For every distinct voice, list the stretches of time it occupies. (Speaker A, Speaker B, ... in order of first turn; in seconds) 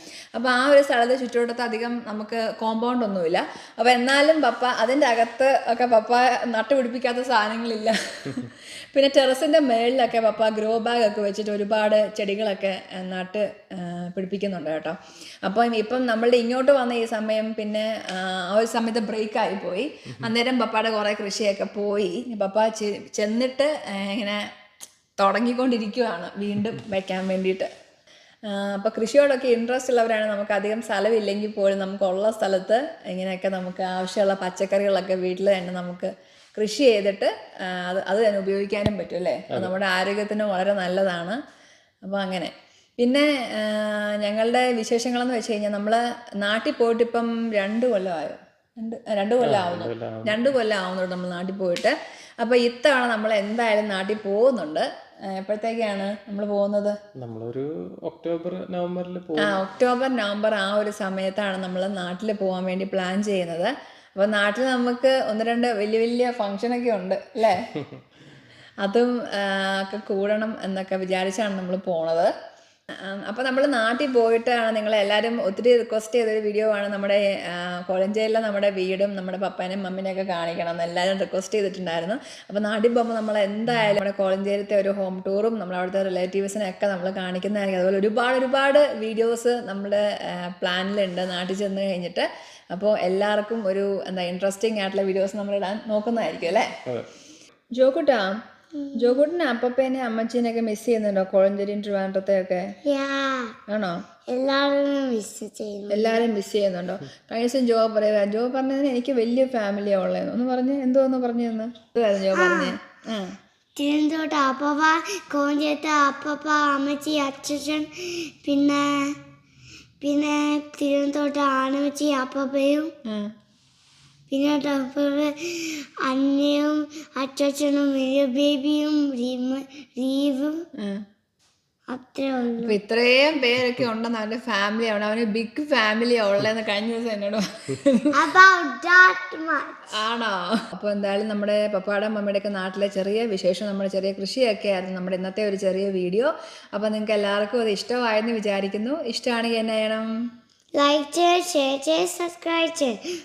Speaker A: 0.3-24.4, 25.2-27.7, 28.5-41.4, 42.0-54.9, 55.4-57.0, 59.4-67.6, 68.8-72.3, 73.1-96.7, 97.8-98.3, 99.0-102.6, 103.7-104.0, 105.9-113.4, 130.8-131.0, 132.6-138.2, 139.9-150.1
Speaker B: 49.4-50.4, 57.2-59.6
Speaker C: 98.8-99.2, 102.9-103.5, 104.3-106.2, 112.3-112.7, 113.8-117.9, 118.5-119.2, 120.0-122.9, 124.3-130.6, 131.9-132.7, 138.2-139.7, 150.8-153.0